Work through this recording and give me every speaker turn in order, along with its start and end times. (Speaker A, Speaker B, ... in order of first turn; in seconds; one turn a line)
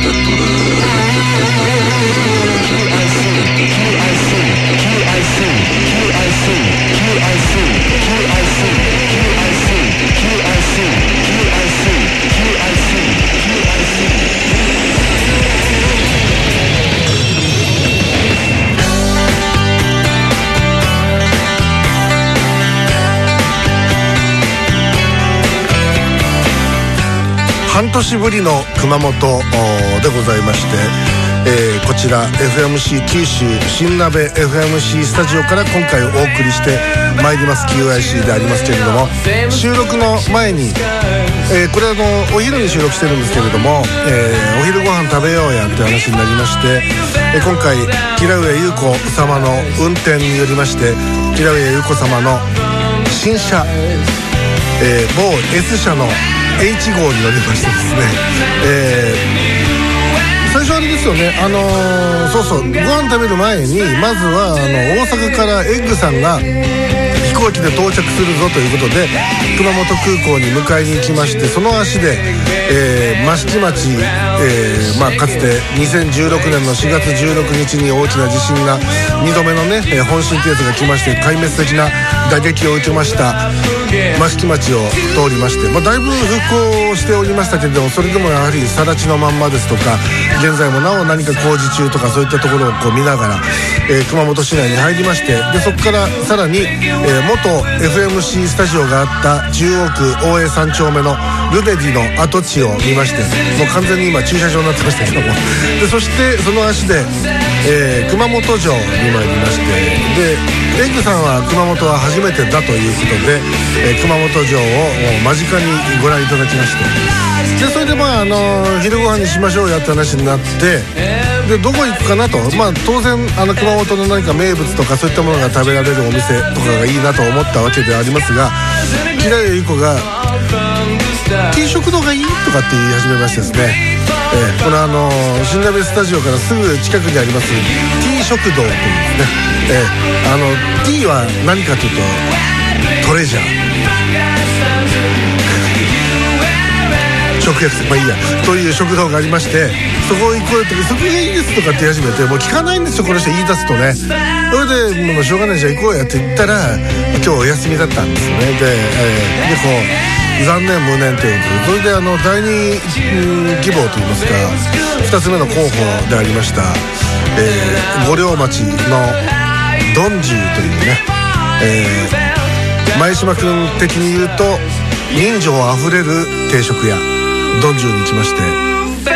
Speaker A: 27.6-40.9
Speaker A: 41.4-52.5
Speaker A: 53.0-53.7
Speaker A: 54.8-59.3
Speaker A: 60.4-66.5
Speaker A: 67.2-83.5
Speaker A: 84.1-130.2
Speaker A: 131.4-142.3
Speaker A: 143.0-143.6
Speaker A: 147.4-171.1
Speaker A: 171.6-172.3
Speaker A: 172.9-178.6